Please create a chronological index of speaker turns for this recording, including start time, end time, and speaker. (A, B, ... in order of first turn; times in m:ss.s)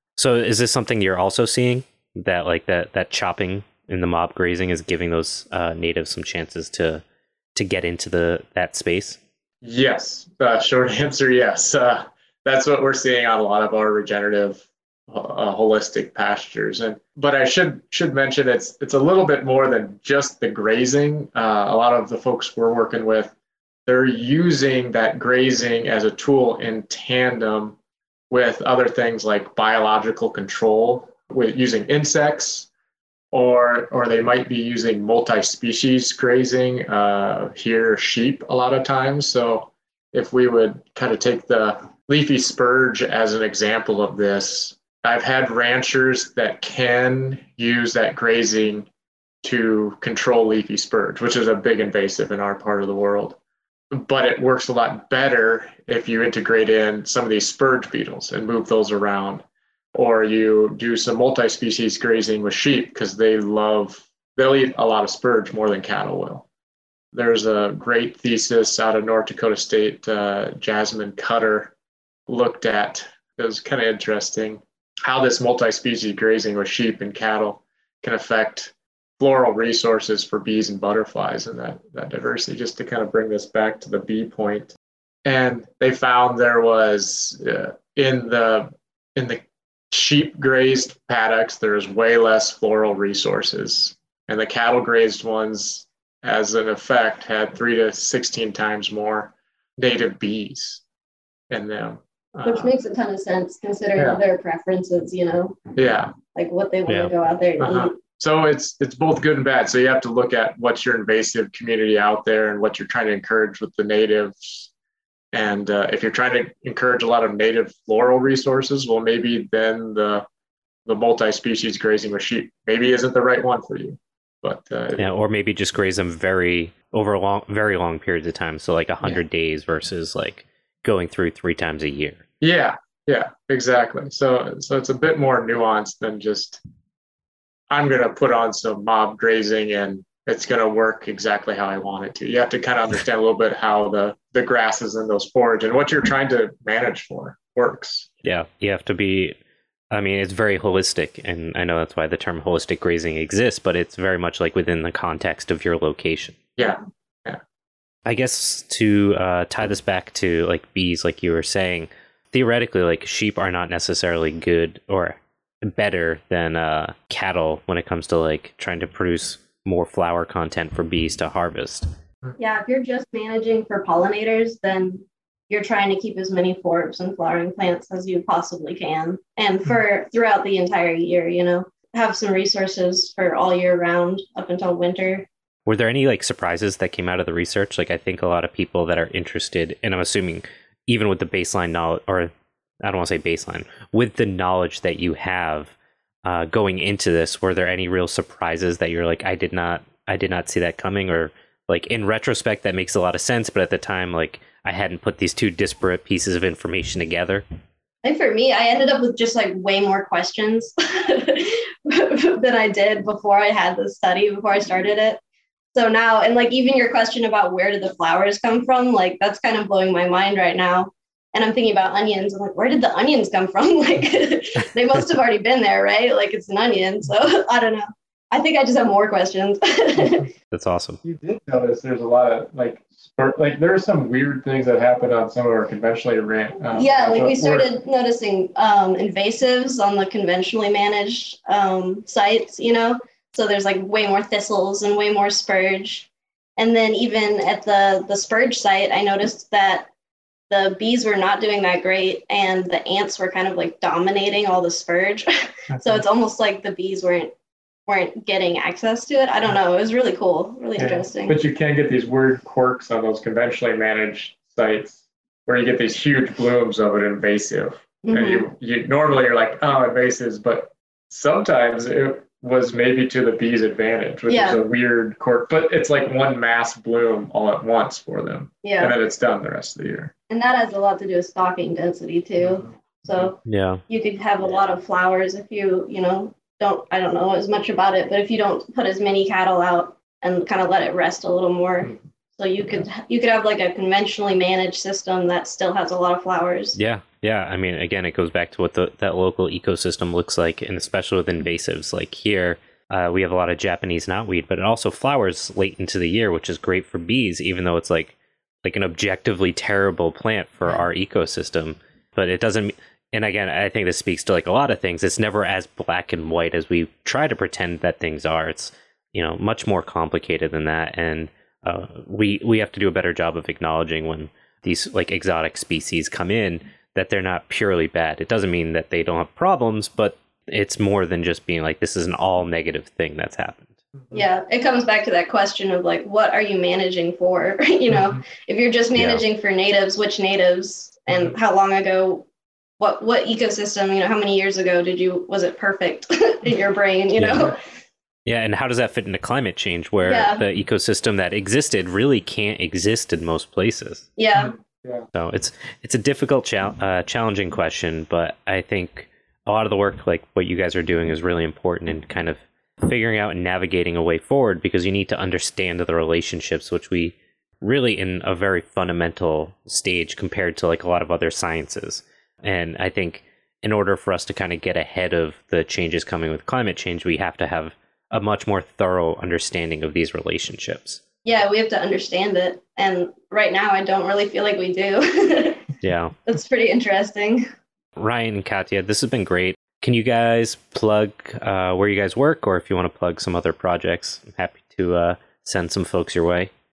0:00.2-0:07.0 A
0:07.6-0:09.2 A
0:09.6-0:23.3 B
0:23.9-0:27.8 B
0:28.3-0:32.7 B
0:33.3-0:48.9 B
0:49.4-0:53.4 B
0:53.9-1:06.5 B
1:07.1-1:11.7 B
1:12.3-1:24.7 B
1:25.2-1:40.8 B
1:41.5-1:42.8 B
1:42.4-1:45.6 C
1:44.0-1:44.2 B
1:45.8-1:46.1 B
1:46.3-1:48.0 C
1:46.9-1:47.1 A
1:47.6-1:54.7 B
1:55.3-2:00.3 B
2:00.9-2:05.1 B
2:05.0-2:12.2 A
2:12.4-2:16.6 B
2:17.7-2:28.1 B
2:28.2-2:29.4 A
2:29.9-2:36.4 A
2:36.6-2:37.4 B
2:38.1-2:51.9 A
2:52.4-3:05.3 C
3:05.7-3:12.3 A
3:12.8-3:27.4 A
3:28.0-3:35.2 C
3:35.7-3:50.3 C
3:50.5-3:51.0 A
3:51.0-3:57.7 B
3:56.7-4:09.9 C
4:10.5-4:17.3 C
4:17.9-4:21.4 C
4:20.8-4:40.1 B
4:28.0-4:28.5 C
4:34.3-4:34.6 C
4:38.6-4:39.0 C
4:40.3-4:43.4 C
4:42.4-4:43.3 B
4:43.5-4:43.8 A
4:43.9-4:56.8 C
4:56.8-5:33.7 A
5:34.1-5:42.3 C
5:37.9-5:38.2 B
5:39.0-5:39.2 A
5:42.8-5:47.6 C
5:47.2-5:47.5 A
5:48.3-5:54.1 A
5:50.0-5:50.4 C
5:54.2-5:54.6 C
5:54.4-5:55.1 B
5:55.2-6:21.0 A
6:21.2-6:25.7 C
6:25.8-6:26.2 A
6:26.2-6:27.5 C
6:28.0-6:36.5 A